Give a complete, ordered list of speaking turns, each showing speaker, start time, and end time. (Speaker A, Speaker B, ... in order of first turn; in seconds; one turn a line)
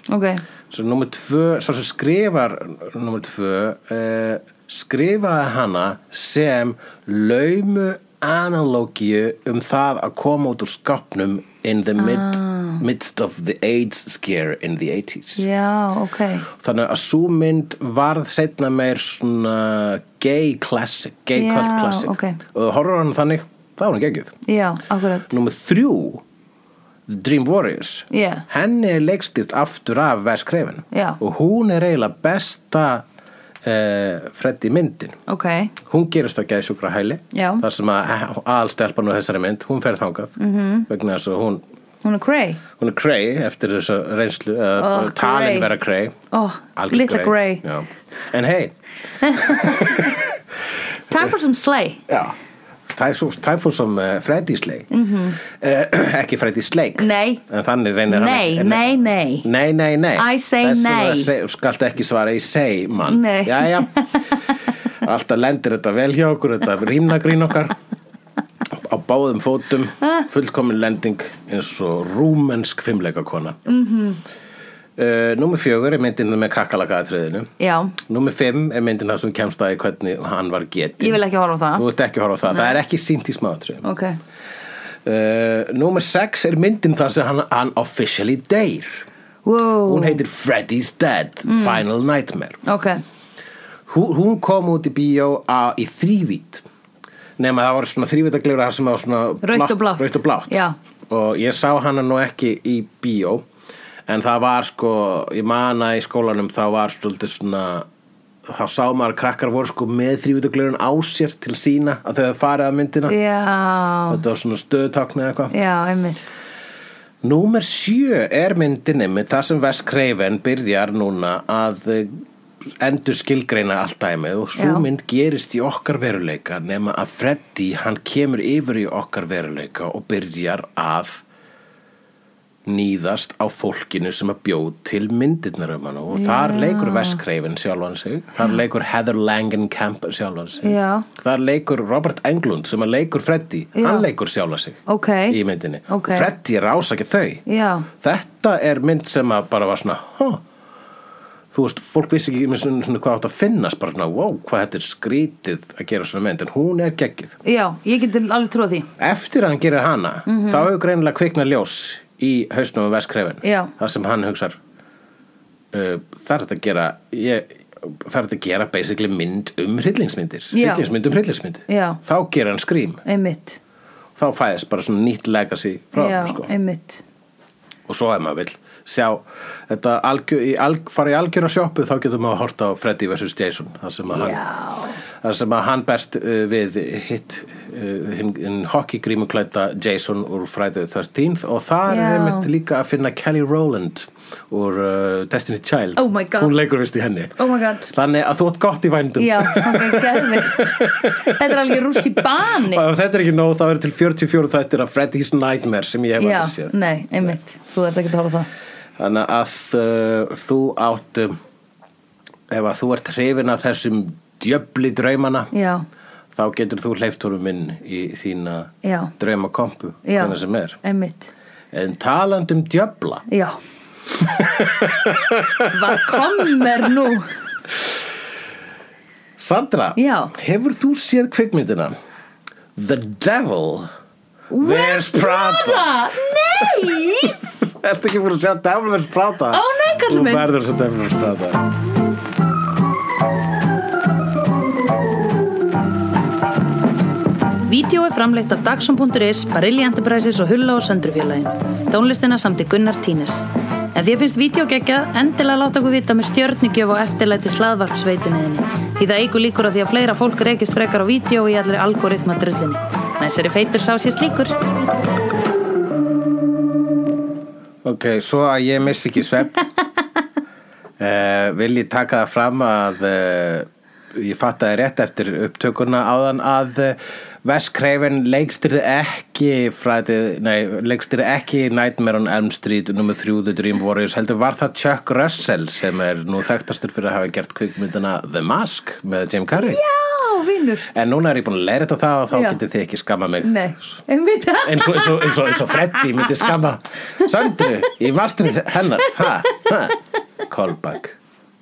Speaker A: 0.1-0.4
Speaker B: 0.7-15.4
Speaker A: 12.0-12.8
Speaker A: 15.4-16.5
Speaker B: 16.5-24.3
Speaker A: 21.4-22.4
Speaker A: 24.4-25.3
Speaker B: 25.3-26.2
Speaker B: 27.1-33.0
Speaker A: 28.1-28.4
Speaker A: 30.9-31.2
Speaker B: 33.6-35.2
Speaker A: 35.3-35.7
Speaker B: 35.9-41.6
Speaker A: 37.3-37.6
Speaker A: 40.4-40.9
Speaker A: 42.0-42.6
Speaker B: 42.8-46.2
Speaker A: 44.8-45.7
Speaker A: 46.3-47.6
Speaker B: 46.8-48.7
Speaker A: 49.2-50.2
Speaker B: 49.2-50.3
Speaker A: 51.1-52.0
Speaker B: 52.1-52.4
Speaker B: 52.9-63.9
Speaker A: 54.9-55.4
Speaker A: 57.0-57.4
Speaker A: 58.1-59.5
Speaker A: 60.1-61.3
Speaker A: 63.1-64.4
Speaker B: 65.0-67.8
Speaker B: 68.7-73.6
Speaker A: 73.7-74.2
Speaker B: 75.0-81.2
Speaker A: 77.6-78.0
Speaker A: 81.0-81.8
Speaker B: 81.7-83.8
Speaker A: 82.5-82.8
Speaker A: 83.8-84.2
Speaker B: 85.0-89.0
Speaker A: 89.4-90.2
Speaker B: 89.8-92.6
Speaker A: 91.5-91.8
Speaker A: 92.6-93.0
Speaker B: 93.9-96.6
Speaker B: 97.4-100.5
Speaker A: 99.4-100.8
Speaker B: 101.1-103.4
Speaker B: 104.1-107.9
Speaker B: 108.5-113.2
Speaker A: 113.1-114.2
Speaker B: 114.1-115.5
Speaker A: 115.5-116.3
Speaker B: 117.2-122.2
Speaker B: 122.8-131.2
Speaker A: 124.6-124.8
Speaker B: 132.6-150.4
Speaker A: 136.1-137.2
Speaker A: 140.6-141.1
Speaker A: 143.8-144.0
Speaker A: 144.9-146.3
Speaker A: 147.4-147.9
Speaker B: 151.5-157.4
Speaker A: 157.4-158.9
Speaker B: 159.0-164.6
Speaker A: 160.2-160.7
Speaker A: 163.4-163.7
Speaker B: 165.7-173.0
Speaker A: 170.5-170.8
Speaker A: 171.7-172.0
Speaker A: 173.0-173.6
Speaker B: 174.2-176.5
Speaker A: 175.9-177.0
Speaker B: 177.9-184.4
Speaker A: 184.1-185.0
Speaker B: 185.2-197.4
Speaker A: 191.9-192.5
Speaker A: 196.0-196.6
Speaker A: 197.4-197.9
Speaker B: 197.9-207.3
Speaker A: 199.2-202.8
Speaker A: 206.2-208.5
Speaker B: 209.0-211.3
Speaker B: 212.5-215.5
Speaker A: 215.5-215.8
Speaker B: 216.3-220.8
Speaker A: 218.8-219.1
Speaker A: 220.0-221.3
Speaker B: 221.7-223.2
Speaker A: 223.3-223.6
Speaker B: 224.1-226.2
Speaker A: 225.6-227.3
Speaker B: 229.4-231.9
Speaker A: 229.9-230.3
Speaker B: 232.8-233.9
Speaker A: 234.5-237.4
Speaker B: 234.6-235.9
Speaker B: 236.6-241.6
Speaker A: 239.5-240.4
Speaker A: 247.7-264.5
Speaker B: 267.8-269.6
Speaker B: 271.0-289.8
Speaker A: 289.5-290.9
Speaker B: 290.9-293.6
Speaker A: 292.3-292.6
Speaker A: 293.4-296.5
Speaker B: 294.6-301.2